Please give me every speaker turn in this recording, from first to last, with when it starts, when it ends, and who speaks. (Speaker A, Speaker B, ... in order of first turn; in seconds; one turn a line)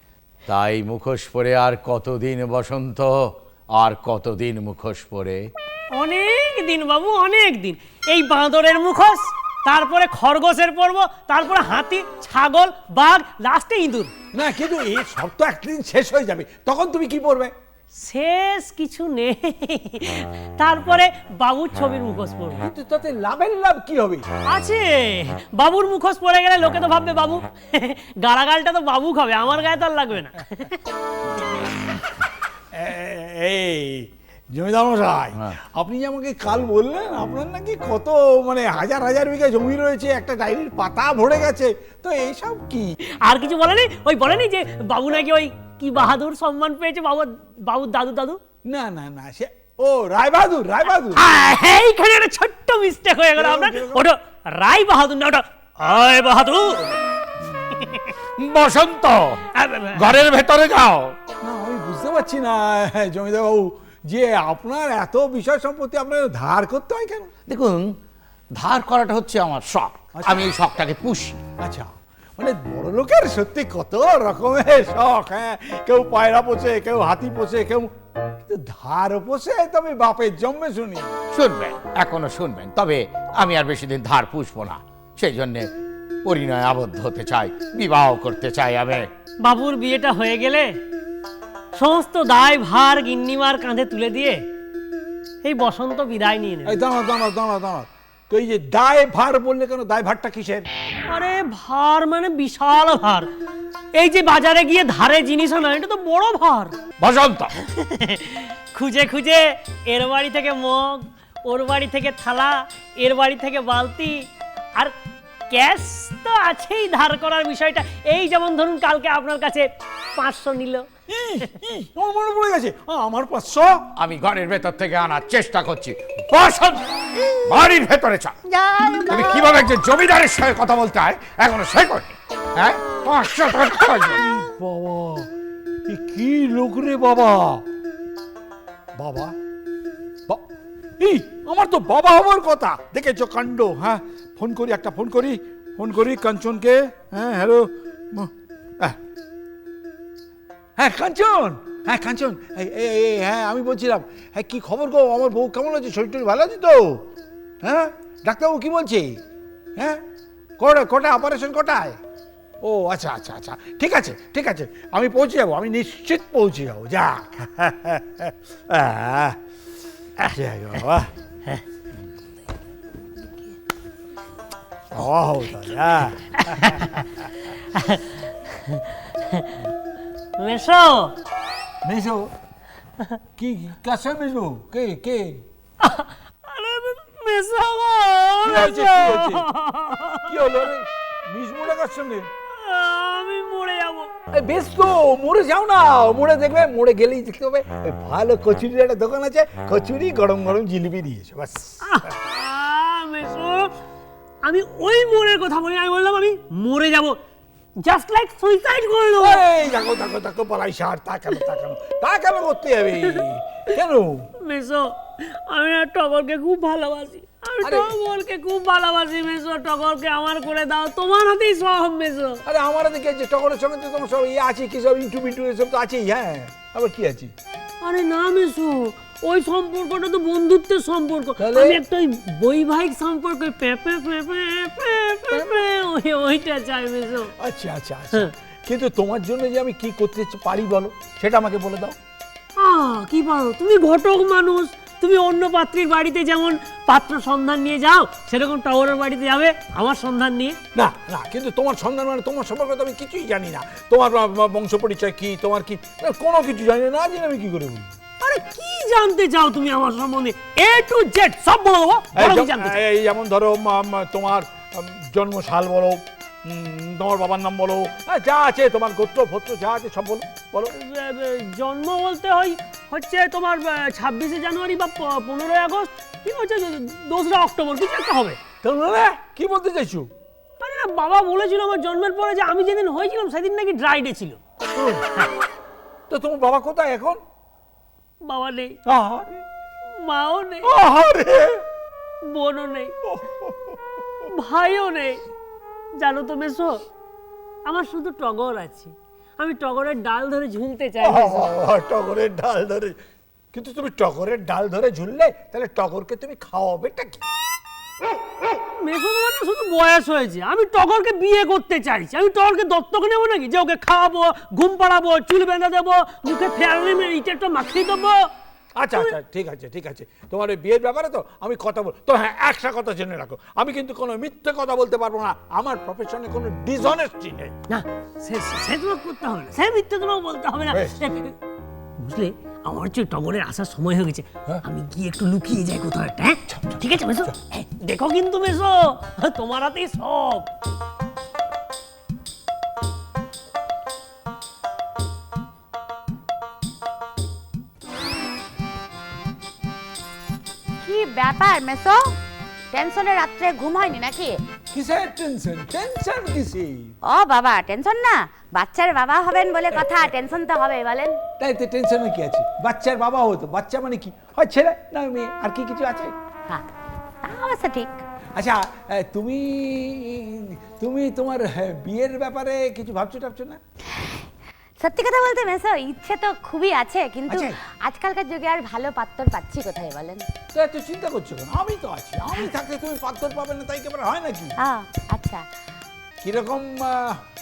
Speaker A: 0.5-3.1
Speaker A: 3.8-5.4
Speaker B: 5.9-14.1
Speaker C: 14.3-17.5
Speaker B: 18.0-22.6
Speaker C: 22.6-24.2
Speaker B: 24.5-30.8
Speaker C: 32.7-42.9
Speaker B: 43.2-48.4
Speaker C: 48.6-51.2
Speaker B: 51.1-56.9
Speaker C: 53.4-54.0
Speaker B: 57.8-58.0
Speaker A: 58.4-59.4
Speaker B: 59.5-60.1
Speaker A: 59.9-61.1
Speaker C: 61.4-67.3
Speaker A: 67.5-68.0
Speaker A: 68.5-71.4
Speaker C: 70.2-70.4
Speaker C: 71.6-77.9
Speaker C: 78.4-81.2
Speaker A: 81.3-85.7
Speaker A: 86.2-89.0
Speaker B: 89.4-90.7
Speaker B: 91.7-94.4
Speaker B: 95.4-96.8
Speaker C: 96.6-100.7
Speaker B: 101.1-103.3
Speaker B: 104.0-106.8
Speaker A: 107.0-107.5
Speaker B: 107.6-114.2
Speaker B: 115.5-120.9
Speaker C: 121.1-123.9
Speaker A: 124.0-126.9
Speaker A: 127.4-128.4
Speaker D: 128.5-129.4
Speaker A: 129.1-134.2
Speaker C: 134.2-135.3
Speaker C: 135.8-137.6
Speaker C: 139.0-139.3
Speaker C: 141.0-149.0
Speaker C: 150.8-157.1
Speaker C: 157.6-159.2
Speaker C: 159.8-160.0
Speaker C: 160.6-162.0
Speaker C: 162.6-169.4
Speaker C: 170.2-171.1
Speaker C: 174.9-177.0
Speaker B: 176.4-177.0
Speaker B: 177.7-179.6
Speaker B: 180.4-181.1
Speaker C: 181.8-182.3
Speaker C: 183.4-185.4
Speaker B: 185.8-190.4
Speaker C: 188.4-189.5
Speaker C: 190.3-192.3
Speaker B: 192.5-194.1
Speaker C: 194.3-201.8
Speaker B: 201.8-203.7
Speaker B: 204.4-207.2
Speaker B: 207.8-209.4
Speaker C: 209.2-214.3
Speaker B: 214.4-222.4
Speaker C: 217.6-217.9
Speaker C: 222.4-227.3
Speaker B: 227.8-237.3
Speaker C: 231.4-231.8
Speaker C: 237.4-241.9
Speaker B: 242.6-250.6
Speaker C: 250.7-257.9
Speaker B: 258.2-262.8
Speaker C: 262.1-270.7
Speaker B: 270.7-278.4
Speaker C: 278.6-280.1
Speaker B: 280.6-284.4
Speaker C: 284.8-285.1
Speaker C: 286.1-287.2
Speaker B: 288.2-288.8
Speaker C: 288.9-289.3
Speaker B: 290.0-290.7
Speaker C: 290.6-291.6
Speaker B: 292.2-292.9
Speaker C: 293.1-293.8
Speaker B: 294.3-295.2
Speaker B: 296.0-296.8
Speaker B: 297.6-301.5
Speaker C: 301.0-303.0
Speaker C: 303.5-307.2
Speaker B: 308.8-318.3
Speaker C: 318.8-327.5
Speaker B: 327.7-331.4
Speaker C: 330.7-330.9
Speaker B: 332.0-340.5
Speaker C: 336.5-337.3
Speaker D: 350.8-352.2
Speaker D: 352.7-354.4
Speaker C: 354.7-356.9
Speaker D: 357.0-361.2
Speaker C: 361.4-366.1
Speaker D: 367.2-368.0
Speaker C: 368.4-373.6
Speaker D: 373.9-374.2
Speaker D: 374.8-380.3
Speaker C: 377.3-377.6
Speaker C: 380.5-384.5
Speaker D: 384.6-385.4
Speaker C: 386.2-387.2